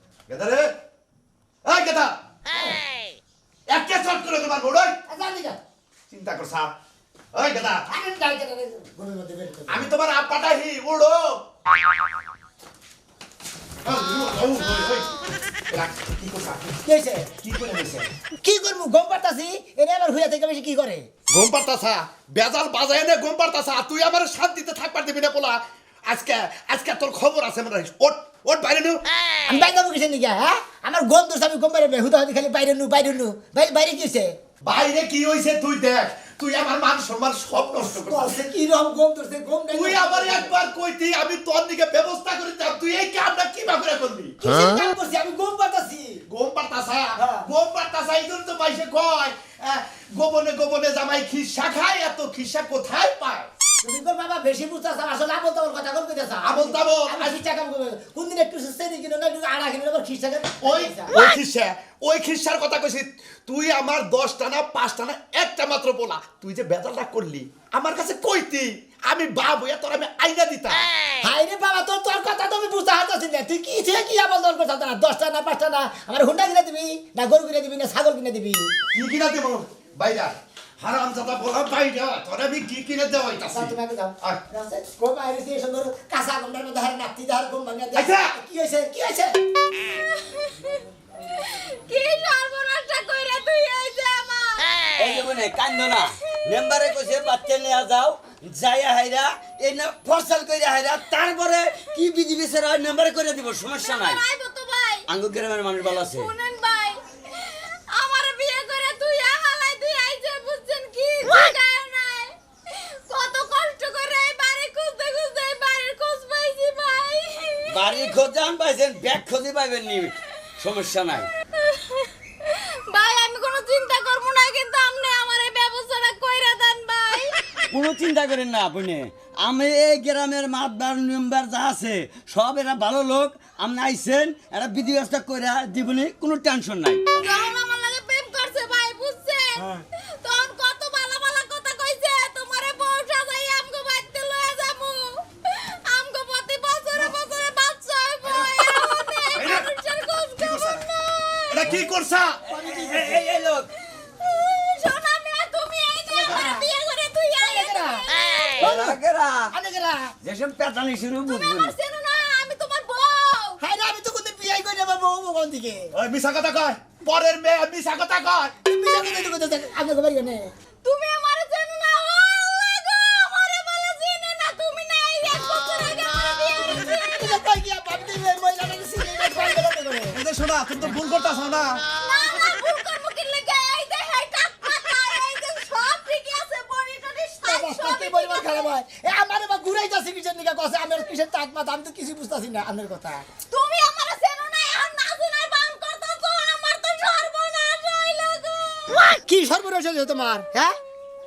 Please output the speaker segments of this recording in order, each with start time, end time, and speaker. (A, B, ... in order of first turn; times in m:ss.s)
0:00.3-0:00.7 A
0:01.6-0:02.2 A
0:02.5-0:02.8 B
0:03.7-0:05.0 A
0:05.1-0:05.6 B
0:06.1-0:06.7 A
0:07.3-0:07.8 A
0:07.9-0:09.9 B
0:09.7-0:11.4 A
0:13.8-0:15.1 A
0:15.7-0:16.8 A
0:16.8-0:17.3 B
0:17.4-0:18.1 A
0:18.4-0:21.1 B
0:21.3-0:29.0 A
0:29.5-0:34.3 B
0:34.6-0:38.4 A
0:37.9-0:40.5 B
0:39.7-0:44.4 A
0:44.4-0:46.2 B
0:46.3-0:53.5 A
0:53.8-1:01.2 B
0:56.4-0:57.4 A
1:00.6-1:10.8 A
1:11.2-1:18.7 B
1:18.9-1:24.4 A
1:23.5-1:29.4 B
1:27.9-1:28.4 A
1:29.9-1:30.8 C
1:31.4-1:34.8 C
1:35.0-1:44.2 D
1:36.4-1:37.6 C
1:43.7-1:45.1 C
1:45.1-1:46.3 D
1:45.8-1:58.1 C
1:57.7-2:01.3 D
2:01.6-2:07.3 C
2:07.7-2:17.0 D
2:17.2-2:31.7 C
2:28.2-2:28.5 A
2:29.3-2:29.7 A
2:30.4-2:30.8 A
2:31.5-2:32.4 A
2:32.5-2:33.7 D
2:32.5-2:33.2 B
2:33.5-2:38.8 C
2:36.1-2:36.7 B
2:37.4-2:38.0 B
2:38.6-2:39.5 D
2:38.6-2:39.0 A
2:39.5-2:40.1 B
2:40.2-2:41.7 D
2:41.3-2:43.6 C
2:43.6-2:45.9 B
2:45.9-2:48.5 A
2:48.6-2:50.5 B
2:50.8-2:57.4 C
2:57.0-3:00.2 B
3:00.1-3:01.8 A
3:02.0-3:08.7 C
3:07.4-3:13.2 B
3:13.5-3:19.0 C
3:19.1-3:20.7 B